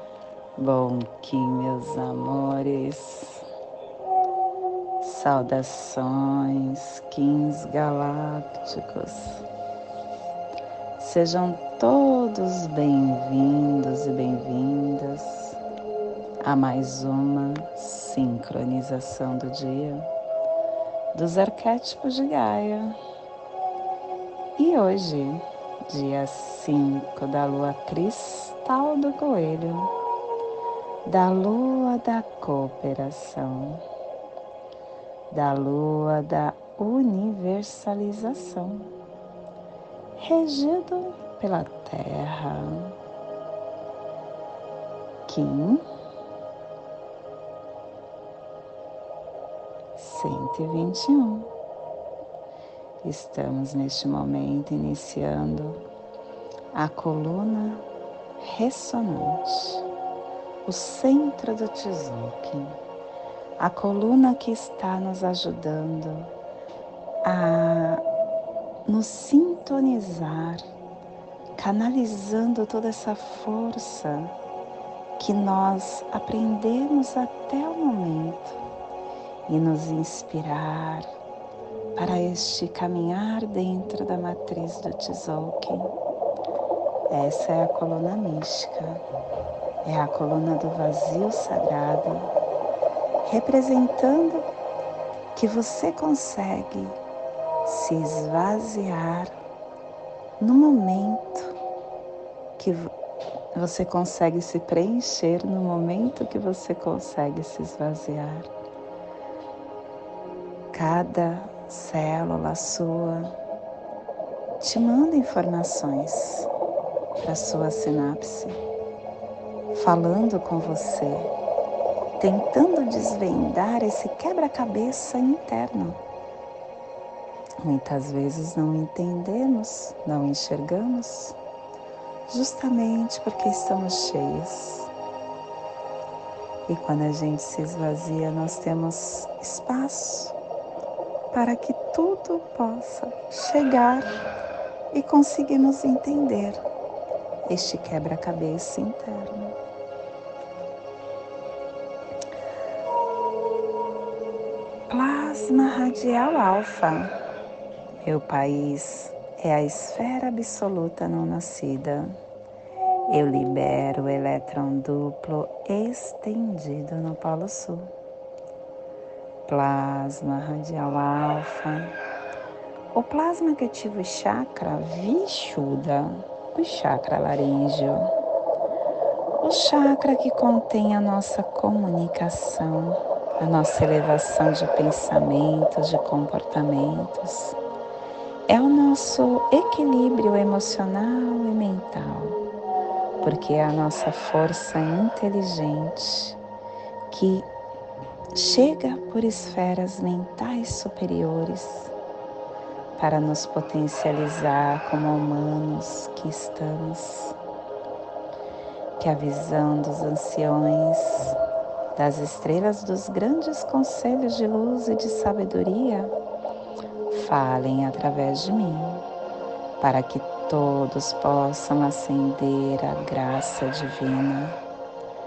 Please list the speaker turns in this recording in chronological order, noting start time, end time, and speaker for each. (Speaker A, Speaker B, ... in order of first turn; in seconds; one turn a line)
Speaker A: 0.6-3.4
Speaker A: 5.0-9.4
Speaker A: 11.0-15.6
Speaker A: 16.4-20.1
Speaker A: 21.1-23.0
Speaker A: 24.6-29.9
Speaker A: 31.0-33.8
Speaker A: 35.3-38.9
Speaker A: 40.2-42.9
Speaker A: 45.3-45.8
Speaker A: 50.0-51.5
Speaker A: 53.0-55.8
Speaker A: 56.7-57.9
Speaker A: 58.4-59.8
Speaker A: 60.6-62.8
Speaker A: 63.6-66.3
Speaker A: 67.2-68.0
Speaker A: 68.8-70.6
Speaker A: 71.5-74.3
Speaker A: 75.2-78.6
Speaker A: 79.5-81.1
Speaker A: 82.0-85.9
Speaker A: 87.1-89.0
Speaker A: 89.8-92.3
Speaker A: 93.2-94.5
Speaker A: 95.3-97.0
Speaker A: 97.6-99.4
Speaker A: 100.4-101.6
Speaker A: 102.6-102.9
Speaker A: 103.5-108.5
Speaker A: 110.7-113.3
Speaker A: 114.6-116.5
Speaker A: 117.2-118.6
Speaker A: 119.7-121.3
Speaker A: 122.2-126.0
Speaker A: 127.6-131.4
Speaker A: 132.3-134.9
Speaker A: 136.7-140.3
Speaker A: 141.3-144.1
Speaker A: 144.9-146.6
Speaker A: 147.5-149.5
Speaker A: 154.9-157.1
Speaker A: 158.0-162.2
Speaker A: 163.1-167.9
Speaker A: 169.5-171.9
Speaker A: 172.9-178.1
Speaker A: 179.4-187.6
Speaker A: 188.5-192.4
Speaker A: 193.2-196.4
Speaker A: 197.1-197.5
Speaker A: 198.3-201.9
Speaker A: 202.9-207.4
Speaker A: 209.0-211.4
Speaker A: 211.9-216.1
Speaker A: 217.1-219.0
Speaker A: 219.8-224.6